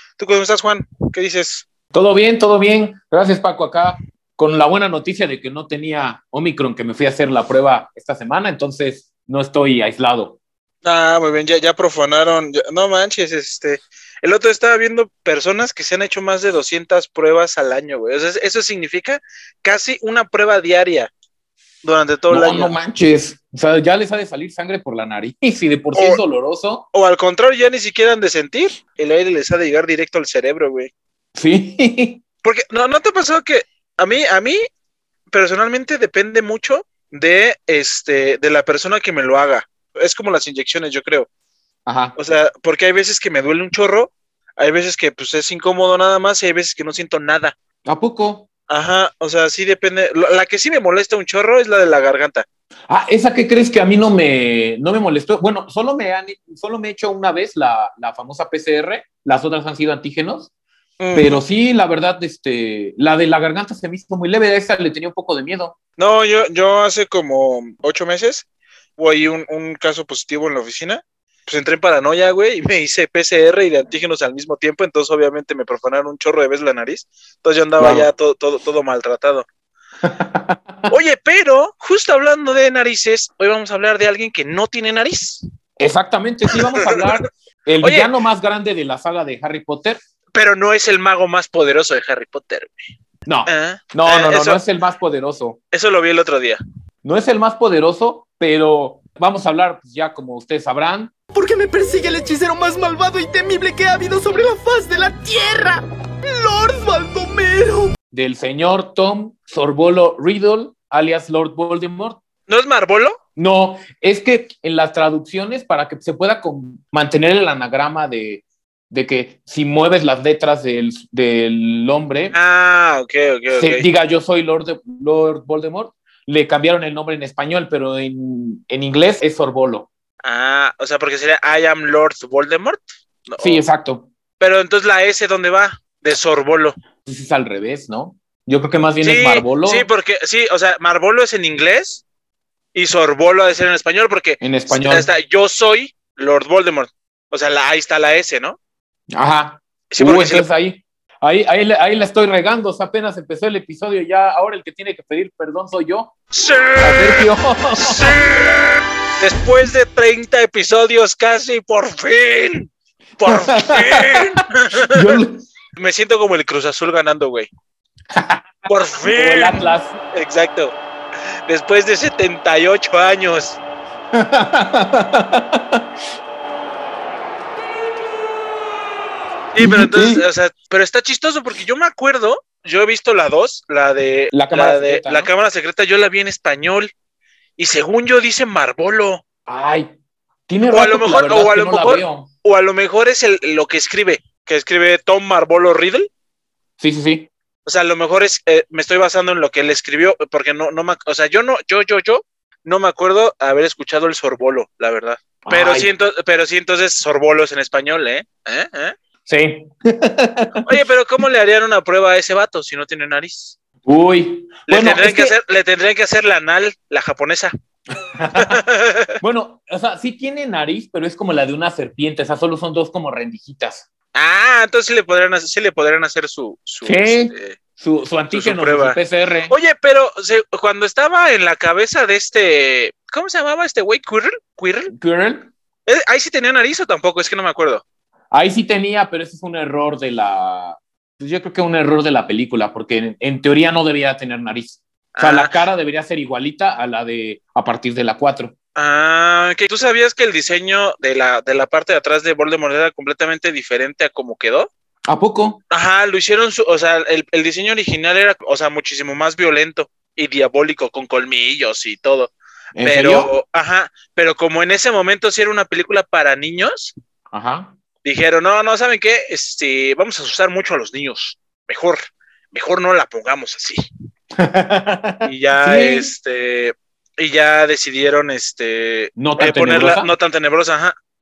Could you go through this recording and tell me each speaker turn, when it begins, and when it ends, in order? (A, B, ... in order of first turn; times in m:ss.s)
0:00.2-0:01.7 A
0:01.9-0:10.4 B
0:10.8-0:21.1 A
0:21.8-0:22.8 A
0:22.3-0:26.8 B
0:25.9-0:26.2 A
0:26.9-0:30.9 A
0:31.4-0:32.2 B
0:32.4-0:34.6 A
0:35.3-0:41.3 A
0:41.9-0:42.2 B
0:42.2-0:47.6 A
0:47.9-0:48.5 B
0:48.7-0:52.5 A
0:52.9-1:00.5 B
1:01.0-1:01.4 A
1:01.1-1:05.8 B
1:06.0-1:08.5 A
1:09.0-1:19.5 A
1:17.8-1:18.1 B
1:20.0-1:20.9 B
1:20.9-1:25.4 A
1:25.8-1:30.0 B
1:26.5-1:27.2 A
1:27.8-1:28.1 A
1:30.3-1:32.9 A
1:33.3-1:35.6 B
1:33.5-1:34.6 A
1:35.7-1:36.6 A
1:37.0-1:41.1 B
1:41.3-1:47.9 C
1:48.1-1:52.2 B
1:52.5-1:53.2 A
1:53.4-2:02.4 B
2:02.3-2:03.9 A
2:03.5-2:09.9 B
2:10.2-2:13.6 A
2:13.4-2:14.1 B
2:14.4-2:16.8 A
2:17.1-2:19.9 B
2:19.0-2:22.0 A
2:22.7-2:28.6 A
2:24.4-2:25.1 B
2:29.1-2:36.1 B
2:29.9-2:30.5 A
2:36.3-2:37.3 A
2:36.8-2:38.1 B
2:37.8-2:45.2 A
2:43.2-2:45.5 B
2:45.8-2:47.5 A
2:48.1-2:48.5 B
2:48.7-2:50.8 A
2:49.0-2:50.0 B
2:51.5-2:53.6 A
2:54.1-2:55.8 B
2:59.5-3:06.9 A
2:59.6-3:00.3 B
3:04.3-3:05.3 B
3:07.6-3:09.2 A
3:09.5-3:09.9 B
3:10.5-3:12.3 B
3:10.7-3:16.1 A
3:16.8-3:17.3 B
3:17.6-3:29.0 A
3:25.4-3:25.9 B
3:29.3-3:30.8 B
3:30.6-3:33.6 A
3:33.9-3:35.3 B
3:34.7-3:37.5 A
3:38.0-3:38.6 B
3:38.4-3:39.2 A
3:39.2-3:43.9 B
3:44.2-3:47.6 A
3:46.8-3:49.6 B
3:48.3-3:54.9 A
3:54.9-3:55.5 B
3:55.9-3:57.8 A
3:58.3-4:08.5 B
4:05.2-4:05.5 A
4:08.8-4:14.7 A
4:15.1-4:15.6 B
4:15.7-4:22.3 A
4:22.8-4:23.3 B
4:22.8-4:27.0 A
4:27.3-4:27.7 B
4:28.0-4:33.8 A
4:34.4-4:36.1 B
4:35.2-4:41.0 A
4:39.2-4:40.1 B